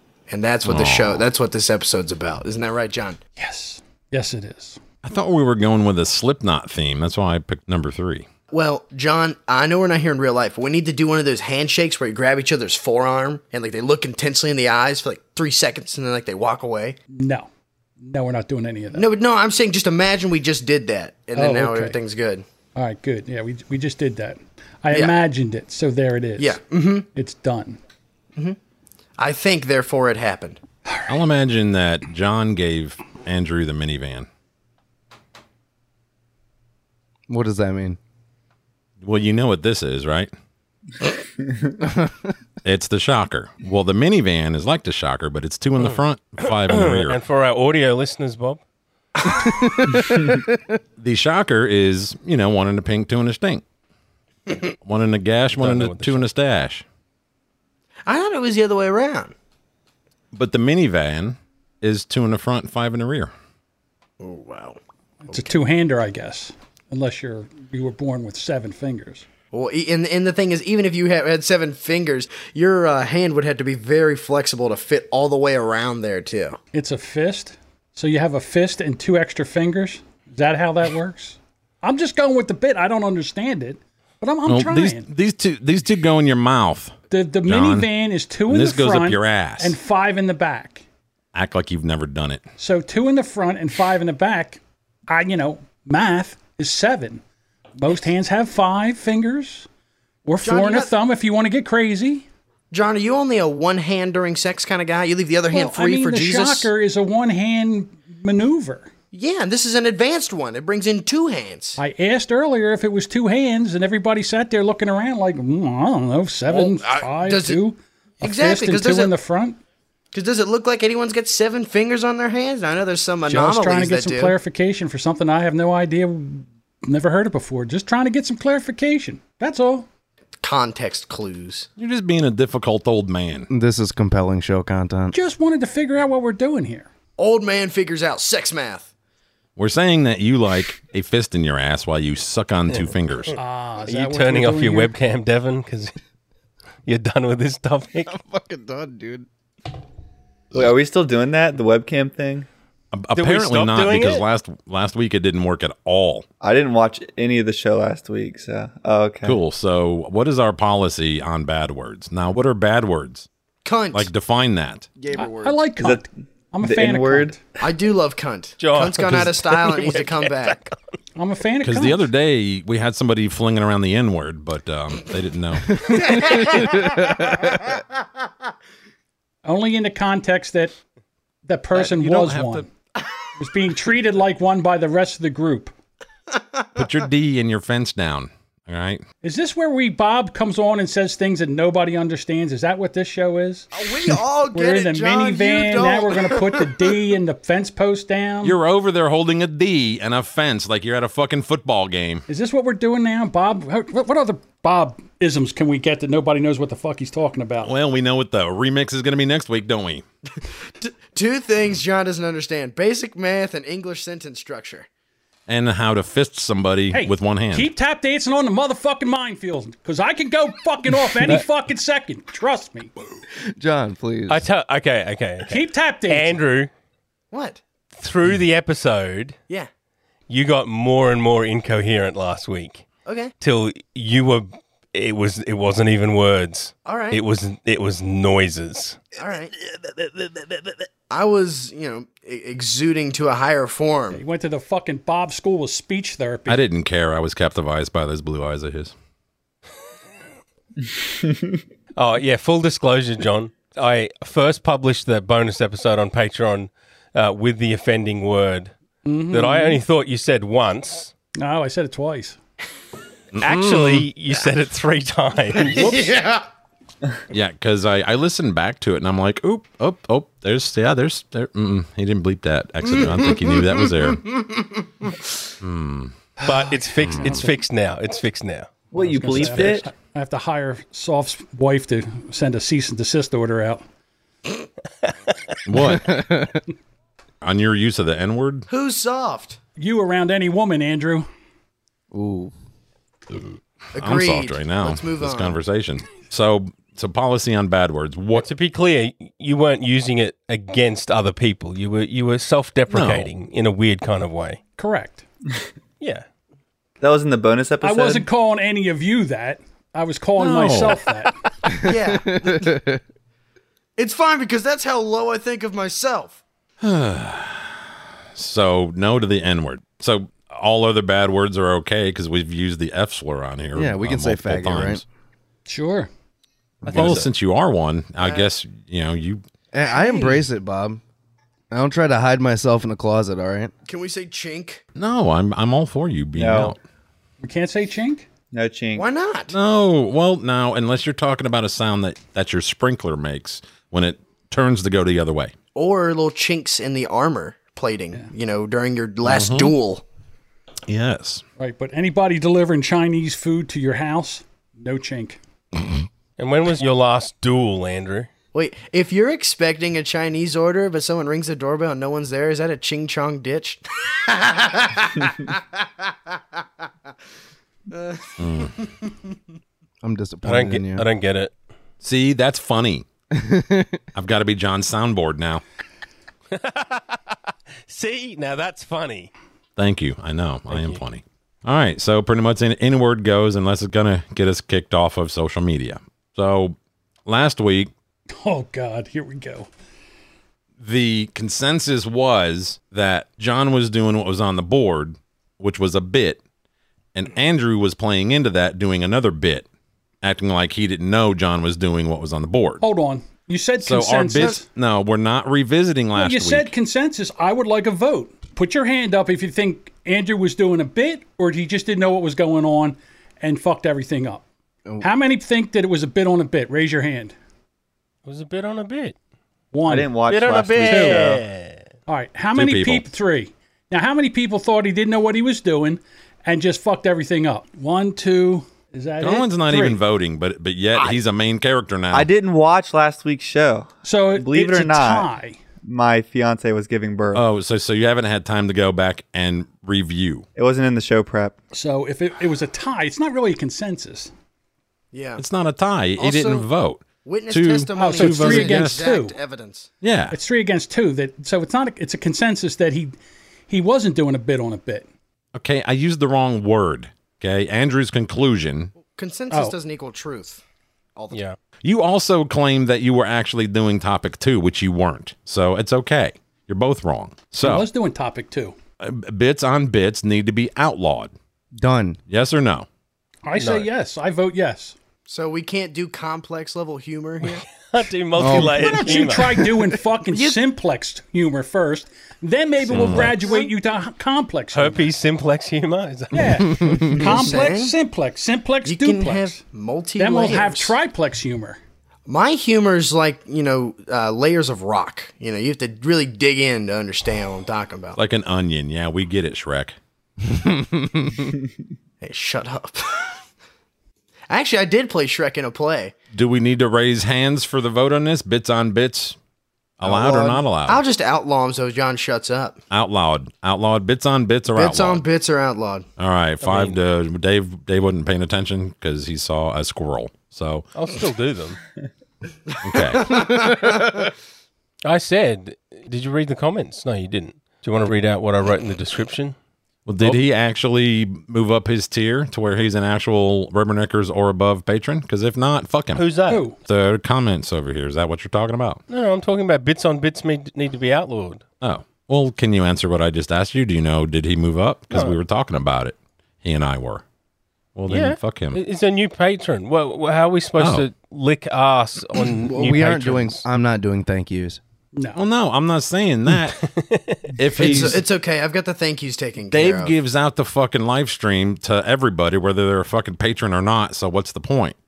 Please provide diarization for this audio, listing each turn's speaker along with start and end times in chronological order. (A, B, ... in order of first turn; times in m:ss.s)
0:00.3-0:03.2 A
0:00.6-0:01.2 B
0:03.4-0:04.8 C
0:05.0-0:08.2 B
0:08.5-0:17.0 A
0:17.1-0:17.5 C
0:18.0-0:19.0 C
0:18.9-0:22.4 A
0:21.3-0:22.0 C
0:22.7-0:26.6 C
0:26.4-0:27.0 A
0:27.1-0:27.8 C
0:29.2-0:30.6 A
0:31.1-0:34.3 B
0:37.3-0:38.0 D
0:39.0-0:40.3 B
0:42.6-0:47.2 B
0:45.8-0:48.6 E
0:49.4-0:50.3 D
0:51.0-0:53.6 B
0:54.8-0:56.8 B
0:55.5-0:56.3 E
0:58.0-0:59.3 A
1:00.3-1:03.3 B
1:04.2-1:04.8 A
1:05.3-1:09.2 C
1:09.5-1:16.6 A
1:16.7-1:25.1 C
1:24.5-1:26.9 B
1:27.1-1:30.8 C
1:27.5-1:27.9 B
1:28.5-1:29.8 B
1:31.3-1:32.4 B
1:32.6-1:37.2 C
1:37.8-1:39.7 C
1:40.2-1:42.3 C
1:40.4-1:40.9 A
1:42.7-1:46.7 A
1:45.5-1:48.9 C
1:49.1-1:51.8 A
1:51.8-1:59.6 C
1:56.5-1:57.6 A
1:58.2-1:59.1 A
2:00.1-2:04.4 A
2:03.2-2:09.9 C
2:10.4-2:11.7 A
2:11.8-2:13.5 B
2:13.5-2:15.1 D
2:15.1-2:16.9 C
2:17.2-2:18.9 A
2:19.6-2:23.4 B
2:23.4-2:24.9 C
2:23.8-2:25.9 E
2:26.8-2:28.1 E
2:28.1-2:29.3 D
2:30.5-2:32.5 F
2:32.9-2:36.2 B
2:33.1-2:34.2 E
2:36.4-2:39.4 F
2:39.2-2:43.3 B
2:43.6-2:44.1 A
2:43.9-2:44.9 B
2:45.0-2:45.6 D
2:45.1-2:47.4 C
2:45.8-2:46.0 F
2:46.6-2:47.4 F
2:47.6-2:50.7 A
2:48.6-2:50.6 E
2:51.2-2:52.1 C
2:51.6-2:55.8 B
2:56.1-2:57.0 A
2:56.5-2:57.4 D
2:59.4-3:00.7 C
3:01.5-3:02.7 C
3:01.7-3:02.6 B
3:03.4-3:05.7 C
3:06.3-3:06.8 A
3:06.7-3:09.0 B
3:09.2-3:13.7 C
3:13.7-3:16.7 A
3:14.5-3:18.6 C
3:18.4-3:22.2 B
3:22.3-3:27.7 C
3:27.6-3:30.0 B
3:30.8-3:34.9 A
3:35.5-3:37.7 B
3:36.9-3:42.9 C
3:43.6-3:44.4 D
3:44.3-3:46.7 E
3:45.5-3:46.4 C
3:47.3-3:47.6 A
3:48.0-3:49.4 E
3:50.3-3:52.8 E
3:53.0-3:53.3 A
3:53.4-3:59.0 E
3:56.8-3:57.2 A
3:59.2-3:59.5 A
4:00.2-4:00.6 E
4:01.1-4:04.2 A
4:04.1-4:06.6 C
4:06.5-4:08.9 B
4:12.0-4:18.7 E
4:19.0-4:19.8 C
4:19.3-4:21.1 E
4:21.4-4:22.4 C
4:23.3-4:24.1 B
4:23.4-4:26.1 E
4:25.7-4:26.4 A
4:27.3-4:34.2 B
4:33.0-4:33.8 A
4:34.4-4:35.1 A
4:35.6-4:36.1 B
4:36.4-4:37.4 C
4:36.4-4:38.7 E
4:37.0-4:37.4 B
4:38.9-4:39.9 F
4:39.0-4:43.8 C
4:45.6-4:46.2 B
4:45.8-4:46.6 D
4:47.4-4:48.6 B
4:48.7-4:49.6 A
4:49.8-4:51.3 C
4:52.1-4:52.5 D
4:53.3-4:58.5 B
4:53.9-4:55.6 A
4:58.4-5:04.6 E
5:02.9-5:03.3 B
5:04.8-5:05.2 C
5:07.0-5:08.3 F
5:07.8-5:11.4 C
5:10.4-5:11.0 B
5:11.8-5:12.7 A
5:12.2-5:13.0 D
5:14.0-5:16.4 A
5:16.8-5:17.8 B
5:18.3-5:25.0 B
5:23.7-5:25.0 D
5:25.7-5:26.1 C
5:26.8-5:27.2 D
5:26.9-5:27.3 E
5:26.9-5:29.4 B
5:28.2-5:28.5 A
5:29.7-5:31.0 D
5:29.9-5:30.4 A
5:31.7-5:33.7 D
5:33.8-5:34.8 A
5:35.0-5:36.8 B
5:36.3-5:36.8 F
5:37.4-5:38.2 C
5:38.5-5:39.1 F
5:38.9-5:39.5 A
5:39.5-5:45.5 B
5:45.7-5:50.0 A
5:49.2-5:49.7 B
5:50.9-5:51.4 B
5:51.6-5:55.4 C
5:56.4-5:58.3 E
5:58.5-6:06.4 A
6:07.9-6:09.2 A
6:08.4-6:08.7 B
6:10.0-6:11.1 D
6:10.4-6:11.5 E
6:12.0-6:13.0 B
6:13.4-6:14.0 D
6:14.1-6:15.6 B
6:16.5-6:17.3 E
6:17.9-6:19.3 E
6:19.8-6:27.9 B
6:20.7-6:21.0 E
6:28.3-6:29.7 C
6:30.8-6:36.4 B
6:37.1-6:39.6 B
6:40.2-6:42.8 B
6:42.8-6:44.6 C
6:43.8-6:46.7 B
6:46.1-6:54.4 C
6:55.0-6:57.3 C
6:58.2-6:59.2 E
6:59.7-7:00.2 C
6:59.8-7:01.4 F
7:00.3-7:01.8 E
7:00.8-7:01.3 C
7:02.1-7:10.0 C
7:02.5-7:03.0 B
7:09.2-7:12.3 B
7:12.1-7:15.3 F
7:14.0-7:15.6 C
7:15.8-7:17.4 F
7:17.3-7:20.4 B
7:20.6-7:21.6 F
7:21.7-7:24.3 C
7:25.1-7:25.4 A
7:25.4-7:29.1 B
7:26.2-7:26.7 A
7:27.2-7:29.9 A
7:28.0-7:29.4 C
7:30.0-7:30.4 B
7:30.3-7:33.1 C
7:33.7-7:35.1 C
7:35.5-7:38.9 B
7:39.0-7:40.6 A
7:39.5-7:39.8 C
7:41.2-7:41.4 A
7:41.3-7:41.6 E
7:41.8-7:47.9 B
7:47.6-7:48.7 C
7:49.0-7:51.3 B
7:51.8-7:52.2 D
7:52.3-7:52.9 B
7:53.4-7:55.0 C
7:53.6-7:53.9 E
7:55.3-7:57.6 A
7:57.4-7:59.7 E
7:58.4-7:59.2 D
7:58.5-8:05.1 C
8:02.9-8:03.3 B
8:04.7-8:07.0 E
8:06.3-8:09.6 C
8:06.8-8:07.2 D
8:07.1-8:07.9 A
8:08.8-8:11.0 A
8:10.2-8:11.8 C
8:12.3-8:18.2 A
8:18.2-8:20.0 B
8:20.5-8:21.3 D
8:22.2-8:23.4 A
8:24.5-8:26.1 A
8:26.3-8:29.4 B
8:30.0-8:31.0 B
8:30.0-8:30.6 D
8:30.8-8:32.8 A
8:32.9-8:35.2 B
8:34.7-8:36.1 A
8:36.2-8:40.9 B
8:36.6-8:37.0 E
8:40.9-8:41.8 E
8:42.7-8:44.3 A
8:42.8-8:43.4 B
8:45.0-8:49.6 E
8:50.0-8:59.0 B
8:56.2-8:56.6 E
8:56.5-8:56.8 C
8:59.1-9:01.6 E
9:01.8-9:07.2 B
9:07.9-9:08.8 B
9:08.1-9:13.6 E
9:10.8-9:11.1 B
9:12.7-9:14.8 D
9:15.2-9:15.4 C
9:15.3-9:16.8 B
9:16.8-9:17.5 E
9:17.6-9:18.2 B
9:17.8-9:20.2 A
9:19.7-9:25.0 B